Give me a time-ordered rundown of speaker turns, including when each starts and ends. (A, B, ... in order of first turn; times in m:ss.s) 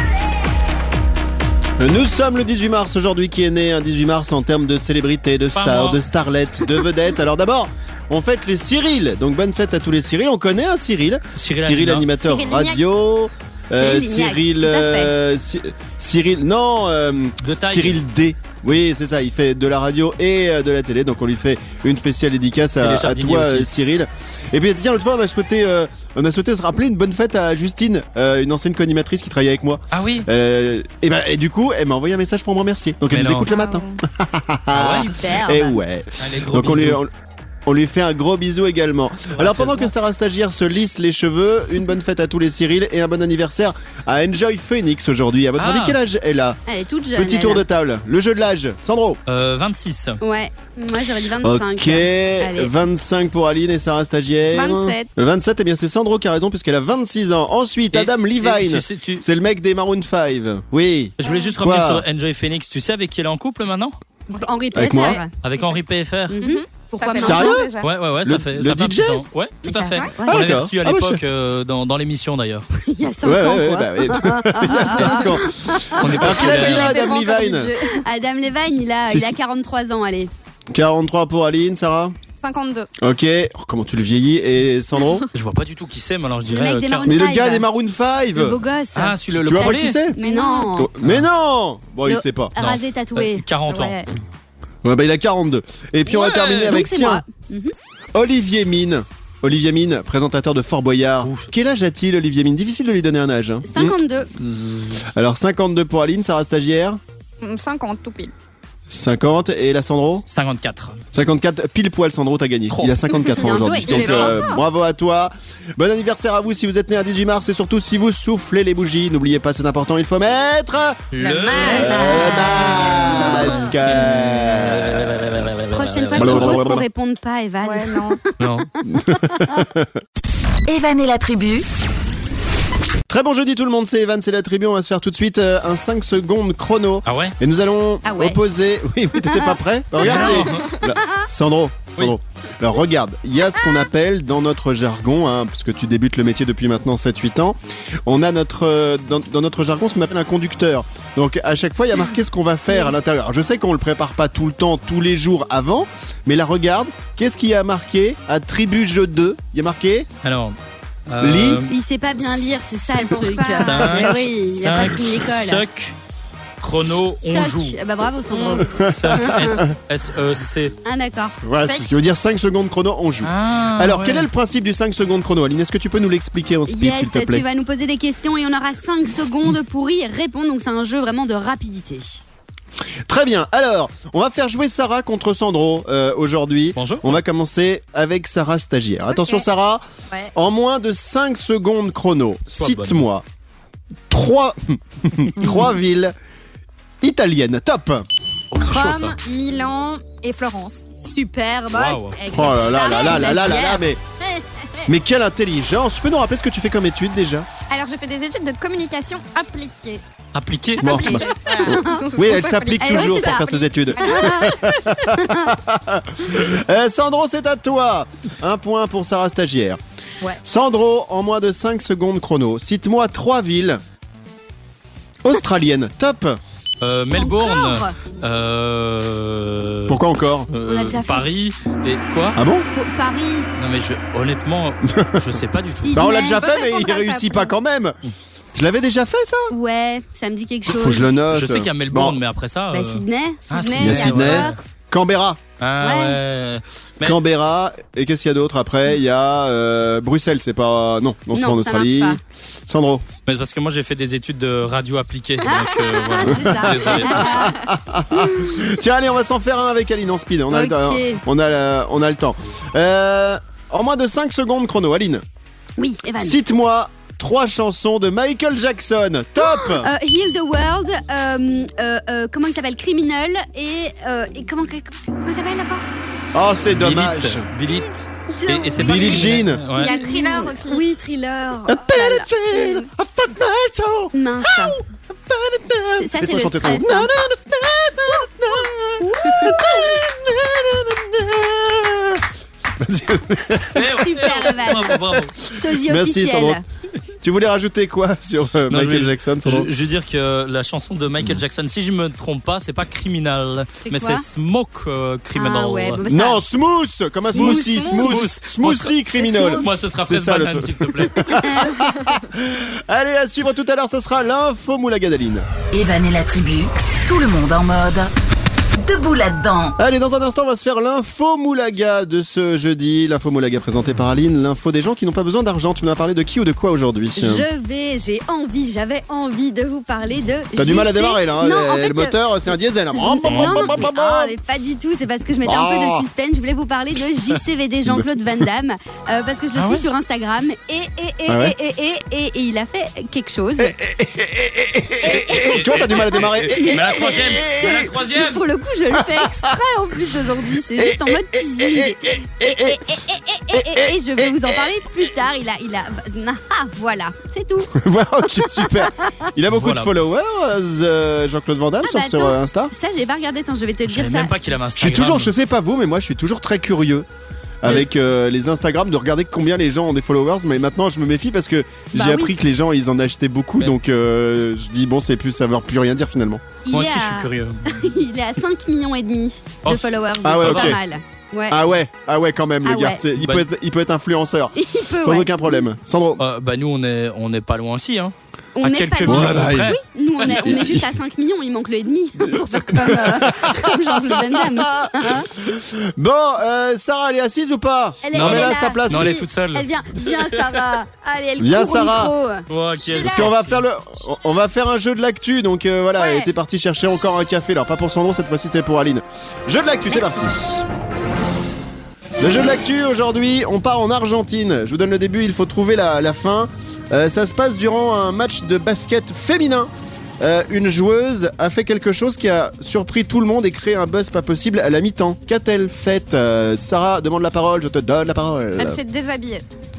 0:01.8-0:37.1 A
0:05.5-0:06.0 B
0:11.4-0:12.1 B
0:12.2-0:12.8 C
0:13.7-0:15.2 D
0:17.4-0:18.0 B
0:22.8-0:23.7 B
0:29.9-0:30.3 B
0:33.1-0:33.5 B
0:33.5-0:34.0 C
0:33.5-0:33.9 D
0:34.7-0:35.1 B
0:34.8-0:35.8 D
0:36.2-0:37.0 B
0:37.7-0:46.6 A
0:39.4-0:40.0 B
0:45.6-0:46.0 B
0:46.7-0:47.6 D
0:47.2-0:49.2 A
0:49.3-0:50.2 B
0:50.2-0:52.7 D
0:51.4-1:02.0 A
0:54.5-0:55.1 C
0:57.9-0:59.2 B
1:01.2-1:04.0 B
1:04.3-1:05.3 D
1:04.8-1:05.2 A
1:04.9-1:05.2 C
1:05.4-1:06.4 B
1:06.3-1:07.7 D
1:06.4-1:07.9 C
1:07.2-1:07.7 A
1:07.8-1:12.7 B
1:08.2-1:09.2 A
1:09.6-1:10.4 D
1:09.9-1:10.2 C
1:10.2-1:11.2 A
1:12.8-1:16.1 D
1:13.2-1:17.7 A
1:14.9-1:15.1 C
1:16.0-1:17.0 B
1:16.1-1:18.0 C
1:17.8-1:20.3 D
1:19.1-1:19.4 A
1:20.7-1:22.2 A
1:22.4-1:22.9 C
1:23.0-1:25.2 A
1:25.3-1:27.1 B
1:26.5-1:27.7 D
1:27.1-1:28.6 A
1:28.4-1:30.9 D
1:29.0-1:30.0 B
1:29.3-1:30.2 A
1:30.2-1:30.7 C
1:30.8-1:32.6 A
1:31.0-1:31.3 B
1:32.1-1:33.4 D
1:32.6-1:34.1 B
1:33.7-1:34.1 C
1:34.8-1:37.2 A
1:36.1-1:36.8 B
1:36.5-1:37.7 D
1:38.1-1:44.0 A
1:41.2-1:41.5 B
1:43.6-1:44.3 D
1:45.0-1:47.0 A
1:47.4-1:48.3 C
1:48.9-1:50.3 A
1:50.3-1:51.0 B
1:51.1-2:05.2 A
1:52.7-1:53.1 B
1:53.3-1:54.3 D
1:53.9-1:54.5 B
1:54.0-1:54.5 C
2:01.1-2:06.6 B
2:01.2-2:02.4 C
2:01.5-2:03.5 D
2:03.0-2:03.6 C
2:05.7-2:09.6 D
2:06.2-2:06.8 A
2:07.6-2:08.2 C
2:08.4-2:08.7 B
2:08.8-2:09.9 A
2:10.7-2:11.7 E
2:13.1-2:40.1 A
2:17.0-2:17.4 B
2:18.0-2:18.4 D
2:19.2-2:20.4 D
2:20.0-2:20.7 B
2:40.2-2:40.6 B
2:41.1-2:41.8 B
2:41.2-2:41.6 A
2:41.7-2:45.6 D
2:42.9-2:44.1 C
2:43.5-2:46.0 B
2:46.6-2:47.8 B
2:47.2-2:49.6 D
2:48.3-2:48.6 C
2:48.6-2:49.7 A
2:48.9-2:50.8 B
2:50.8-2:51.4 D
2:51.4-2:57.4 A
2:53.2-2:54.3 B
2:56.7-3:02.2 D
3:03.1-3:09.8 A
3:06.8-3:07.1 B
3:09.1-3:09.4 C
3:10.3-3:13.2 A
3:12.6-3:13.0 B
3:14.1-3:16.2 A
3:15.4-3:15.7 B
3:17.0-3:18.1 A
3:18.5-3:19.2 B
3:18.7-3:20.8 C
3:21.0-3:23.8 D
3:21.7-3:22.2 B
3:22.3-3:24.0 A
3:24.9-3:27.5 A
3:27.7-3:30.0 C
3:30.3-3:31.2 B
3:30.8-3:39.8 A
3:30.8-3:34.7 C
3:30.9-3:32.1 D
3:32.9-3:33.4 D
3:34.0-3:35.5 D
3:40.4-3:43.8 A
3:45.2-3:46.4 A
3:46.8-3:52.4 B
3:47.2-3:48.0 D
3:49.9-3:50.5 A
3:50.6-3:51.3 D
3:52.4-3:52.7 A
3:52.7-3:53.5 D
3:53.6-3:56.0 B
3:55.0-3:55.2 A
3:55.7-3:57.5 D
3:55.9-3:58.0 A
3:58.6-3:59.6 A
3:59.5-4:01.2 D
4:00.7-4:02.2 A
4:01.3-4:04.6 B
4:02.7-4:03.8 D
4:03.6-4:04.6 C
4:03.8-4:05.4 A
4:05.6-4:07.2 B
4:05.8-4:06.2 D
4:07.0-4:13.1 A
4:11.3-4:12.2 D
4:13.3-4:17.4 B
4:15.4-4:17.6 D
4:16.5-4:25.2 A
4:18.2-4:18.6 D
4:20.5-4:21.2 D
4:25.8-4:26.4 D
4:26.2-4:29.9 A
4:29.4-4:35.9 D
4:36.3-4:37.5 A
4:36.7-4:40.0 B
4:38.3-4:42.3 D
4:38.8-4:39.6 A
4:38.8-4:39.1 C
4:39.8-4:40.8 C
4:41.7-4:54.8 A
4:44.1-4:44.8 D
4:46.0-4:47.1 D
4:49.0-4:49.9 D
4:53.8-4:55.4 B
4:53.9-4:56.6 D
4:55.8-4:56.6 A
4:57.2-4:59.7 A
4:58.7-5:06.0 B
5:03.8-5:04.3 D
5:05.4-5:06.4 D
5:06.1-5:15.5 A
5:07.3-5:08.2 D
5:07.4-5:09.0 B
5:09.3-5:09.6 C
5:09.6-5:11.4 B
5:11.4-5:11.8 D
5:15.7-5:18.1 E
5:18.8-5:19.8 E
5:19.8-5:27.5 A
5:27.2-5:32.2 D
5:30.6-5:34.3 A
5:32.9-5:43.8 D
5:33.3-5:33.7 B
5:35.4-5:36.0 A
5:39.6-5:39.8 B
5:41.3-5:41.6 A
5:43.6-5:47.9 A
5:45.0-5:57.8 D
5:45.4-5:48.4 B
5:48.9-5:49.5 A
5:50.8-5:52.8 A
5:53.5-5:54.7 A
5:57.7-6:02.7 A
5:58.4-5:59.3 D
5:59.5-5:59.9 B
6:01.8-6:04.3 D
6:03.9-6:05.3 B
6:04.8-6:07.1 A
6:07.6-6:16.4 A
6:11.9-6:12.3 D
6:16.6-6:21.6 D
6:16.7-6:17.8 B
6:19.6-6:20.8 B
6:20.2-6:20.8 A
6:21.5-6:26.2 A
6:22.6-6:23.0 D
6:23.2-6:23.5 B
6:24.6-6:25.6 D
6:26.2-6:30.5 B
6:28.6-6:35.3 D
6:29.1-6:29.8 A
6:30.3-6:30.9 A
6:32.6-6:39.2 A
6:38.0-6:43.3 D
6:38.1-6:39.7 B
6:41.4-6:42.1 A
6:42.5-6:43.6 B
6:43.0-6:50.7 A
6:46.0-6:46.3 C
6:49.9-6:50.3 D
6:52.2-7:08.8 A
7:08.6-7:09.4 C